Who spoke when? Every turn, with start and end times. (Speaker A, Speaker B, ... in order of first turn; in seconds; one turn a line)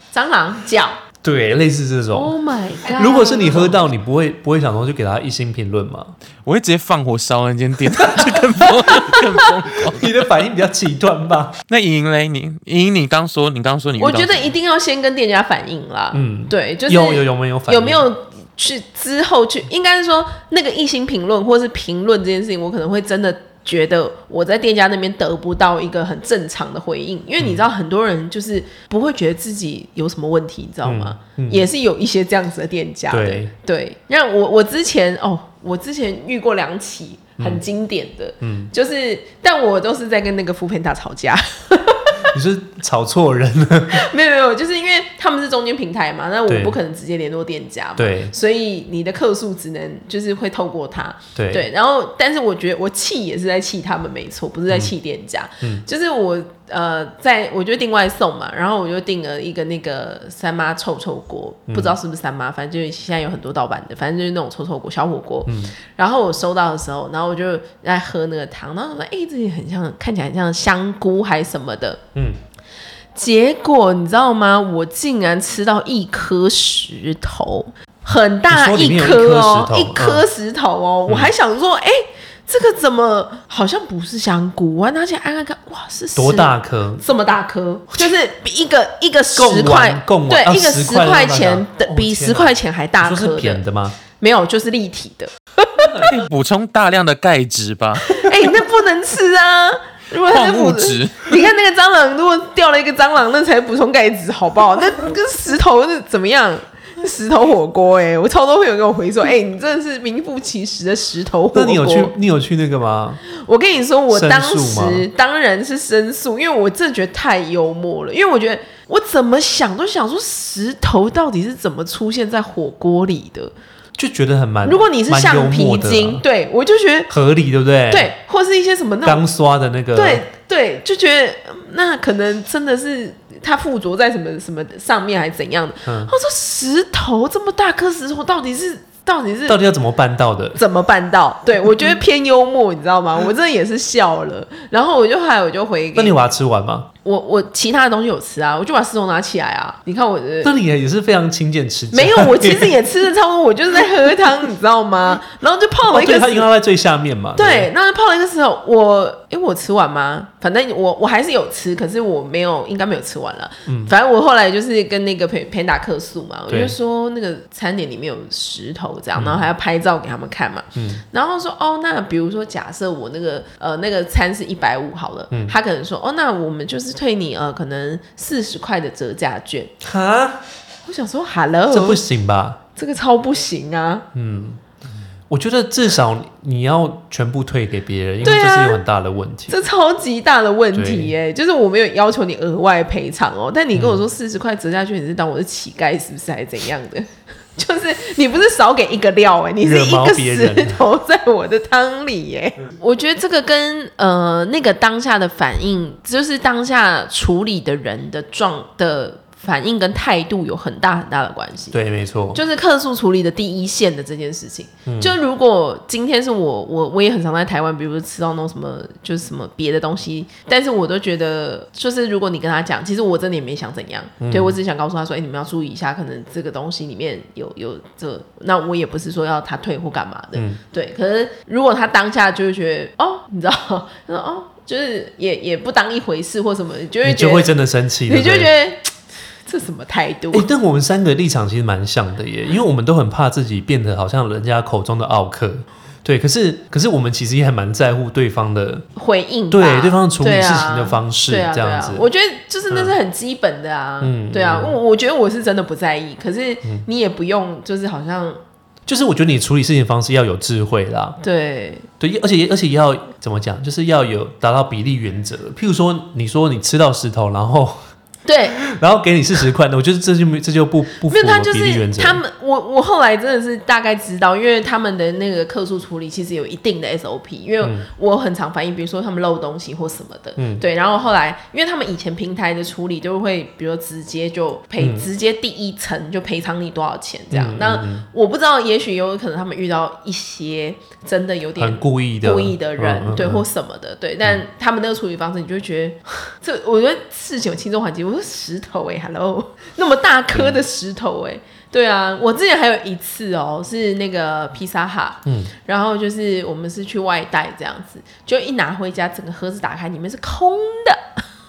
Speaker A: 0.1-1.0
Speaker B: 1.2-6.2
Speaker A: 2.1-3.8
Speaker C: 6.4-10.1
Speaker B: 8.0-9.0
Speaker B: 9.8-11.6
Speaker C: 11.7-14.5
Speaker A: 14.0-42.3
Speaker B: 16.1-18.1
Speaker B: 27.4-27.7
Speaker B: 30.8-31.7
Speaker B: 33.1-33.5
Speaker B: 38.4-38.7
Speaker B: 42.3-44.0
Speaker A: 43.9-72.0
Speaker B: 46.5-46.8
Speaker B: 48.0-48.3
Speaker B: 51.4-51.6
Speaker B: 61.7-62.0
Speaker B: 65.5-65.7
Speaker A: 73.1-93.6
Speaker B: 78.5-80.3
Speaker B: 81.1-81.3
Speaker B: 86.2-87.0
Speaker B: 89.3-94.0
Speaker A: 94.2-96.0
Speaker B: 95.8-96.3
Speaker C: 96.0-98.3
Speaker A: 98.0-112.1
Speaker C: 100.3-101.3
Speaker B: 111.5-113.2
Speaker A: 113.3-123.5
Speaker B: 114.1-115.1
Speaker B: 124.0-126.2
Speaker A: 124.6-127.1
Speaker B: 127.1-128.1
Speaker A: 127.9-129.2
Speaker B: 129.1-130.2
Speaker A: 129.9-139.6
Speaker B: 135.8-136.1
Speaker B: 139.5-140.6
Speaker A: 140.6-146.2
Speaker B: 145.9-146.9
Speaker A: 147.0-150.6
Speaker B: 150.4-152.8
Speaker A: 151.9-156.5
Speaker B: 155.9-157.7
Speaker A: 157.4-179.7
Speaker B: 163.7-163.9
Speaker B: 166.5-166.8
Speaker B: 169.2-169.5
Speaker B: 170.8-171.0
Speaker B: 175.3-175.6
Speaker B: 179.8-180.4
Speaker A: 180.8-182.0
Speaker B: 181.7-182.6
Speaker A: 182.8-184.1
Speaker B: 184.1-184.6
Speaker B: 185.3-189.6
Speaker A: 188.2-188.8
Speaker A: 189.5-211.8
Speaker B: 190.7-191.1
Speaker B: 193.7-194.1
Speaker B: 199.6-200.8
Speaker B: 211.7-212.4
Speaker A: 212.3-237.5
Speaker B: 214.9-215.1
Speaker B: 224.2-224.6
Speaker B: 230.3-230.6
Speaker B: 237.0-238.5
Speaker A: 238.1-238.9
Speaker A: 239.5-240.5
Speaker B: 240.3-248.9
Speaker A: 249.0-258.4
Speaker B: 249.5-252.1
Speaker B: 252.7-253.0
Speaker B: 254.0-254.8
Speaker B: 258.9-261.2
Speaker A: 261.2-261.9
Speaker B: 262.0-267.9
Speaker A: 268.3-268.6
Speaker B: 268.6-272.2
Speaker A: 271.1-311.0
Speaker B: 280.4-280.6
Speaker B: 284.8-285.1
Speaker B: 287.3-288.1
Speaker B: 291.6-293.4
Speaker B: 300.3-300.6
Speaker B: 305.2-305.5